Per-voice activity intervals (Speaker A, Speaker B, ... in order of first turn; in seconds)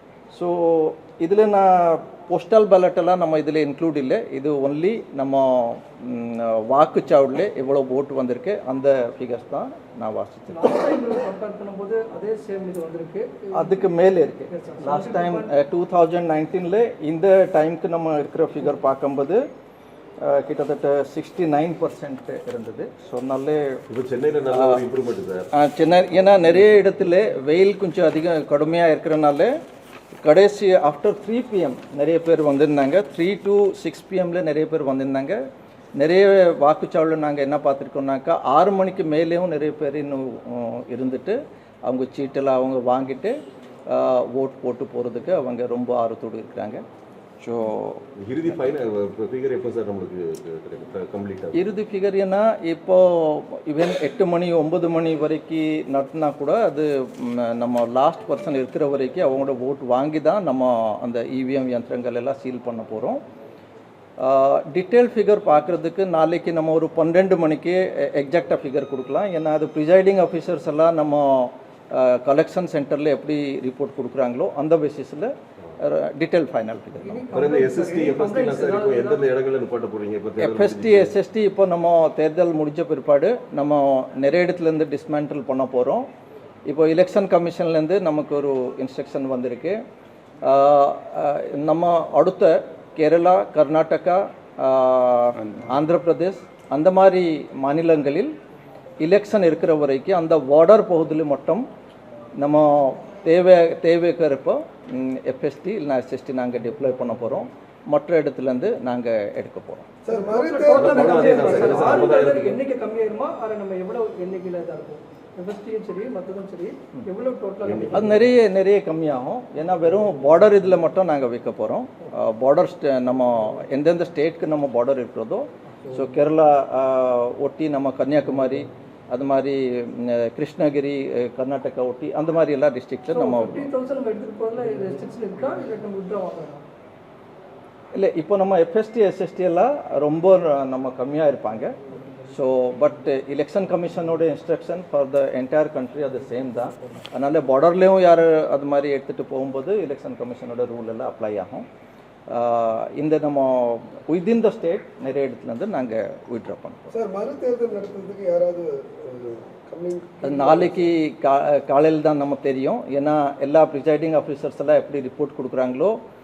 Speaker A: 0.3-10.8, 13.5-19.4, 20.2-23.8, 24.5-24.8, 25.5-29.6, 30.2-35.4, 36.0-43.4, 43.9-46.8, 47.4-48.6, 51.5-63.2, 64.2-77.2, 80.4-86.1, 86.7-89.8, 90.4-98.3, 99.0-101.7, 102.4-109.9, 117.9-133.7, 137.9-141.8, 142.3-151.7, 152.3-156.9, 160.2-166.0
Speaker B: 10.5-13.9, 14.5-15.5, 77.0-79.3, 110.1-118.2, 133.1-136.6
Speaker C: 23.9-25.5, 48.2-51.6, 77.3-81.2, 110.7-112.6, 117.6-118.1
Speaker D: 110.0-112.0, 156.9-160.8